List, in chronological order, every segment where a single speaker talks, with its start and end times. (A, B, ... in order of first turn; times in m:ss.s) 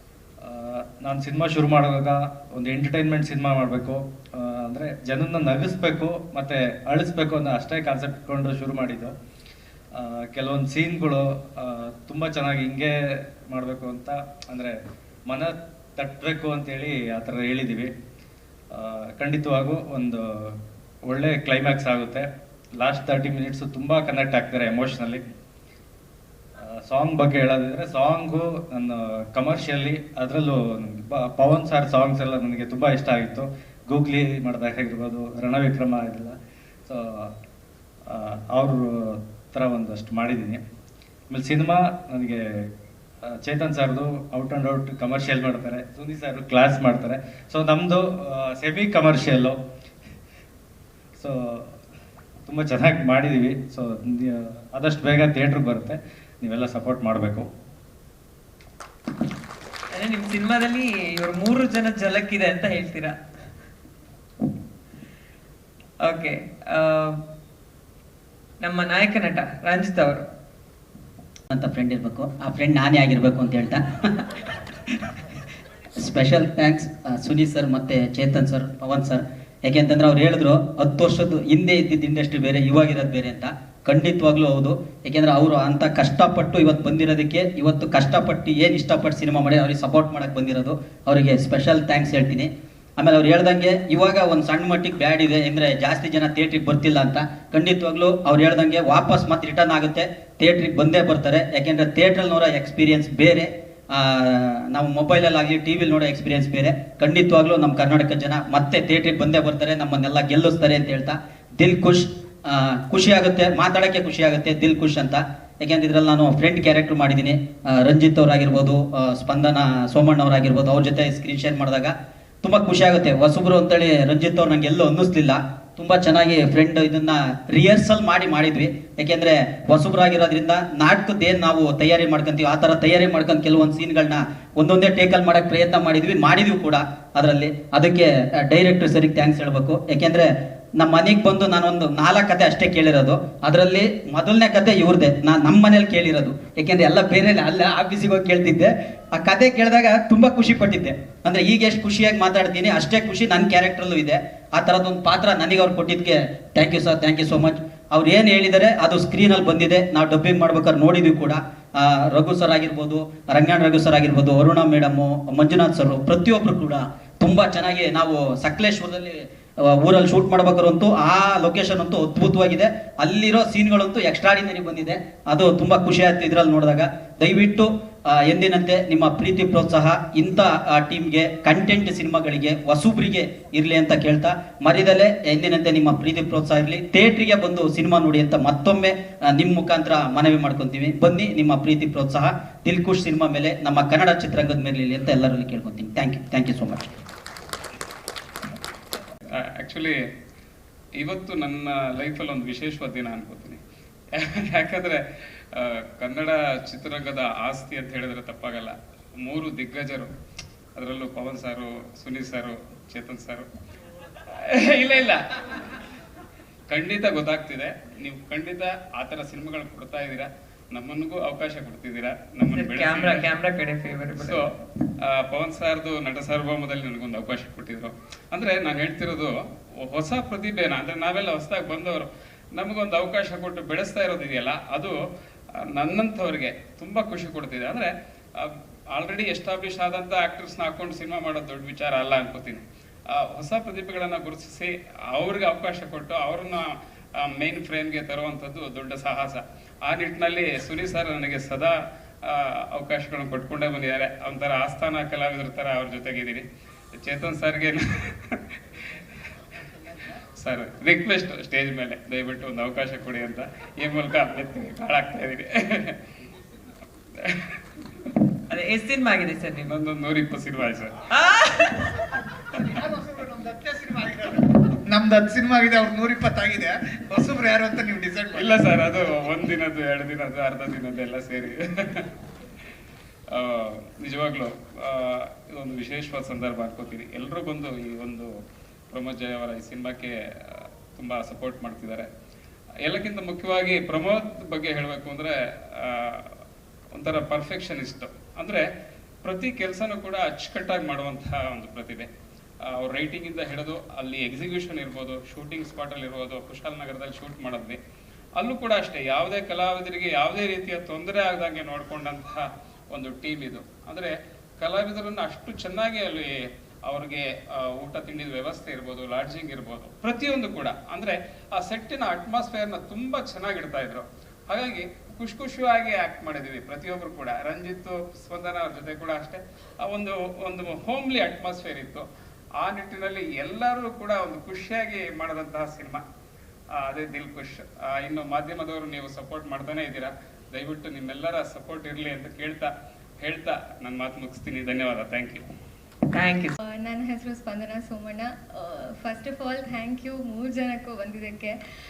0:00.4-0:09.1 A
0:09.9-0:17.9 A
0:18.7-0:25.2 A
0:26.6-0:37.3 A
0:38.1-0:40.6 A
0:41.3-0:42.7 A
0:43.2-0:49.6 A
0:51.2-0:51.7 A
0:52.5-0:57.5 A
0:59.9-1:03.2 B
1:06.0-1:07.2 B
1:08.6-1:10.2 B
1:11.5-1:14.1 C
1:16.0-3:16.9 C
3:19.6-3:20.0 D
3:21.0-3:23.6 D
3:24.2-3:25.0 D
3:25.5-3:30.1 D
3:30.8-3:33.4 D
3:34.5-3:35.2 D
3:36.7-3:43.3 D
3:42.5-3:44.4 B
3:44.2-3:44.5 D
3:45.1-3:55.0 D
3:55.7-4:02.6 D
4:03.2-4:06.6 D
4:07.2-4:11.7 D
4:12.2-4:16.4 D
4:17.0-4:18.4 D
4:20.4-4:25.9 D
4:28.5-4:29.6 B
4:29.6-4:30.9 D
4:31.2-4:31.7 B
4:32.5-4:38.7 E
4:38.3-4:42.0 D
4:43.3-4:48.3 D
4:48.9-4:52.1 D
4:52.8-4:56.2 D
4:56.9-4:58.6 D
4:59.2-5:02.1 D
5:02.7-5:07.8 D
5:08.4-5:16.3 D
5:16.8-5:32.0 D
5:32.6-5:36.0 D
5:36.8-5:42.7 D
5:43.2-5:45.4 D
5:46.1-5:46.6 B
5:46.6-5:51.6 F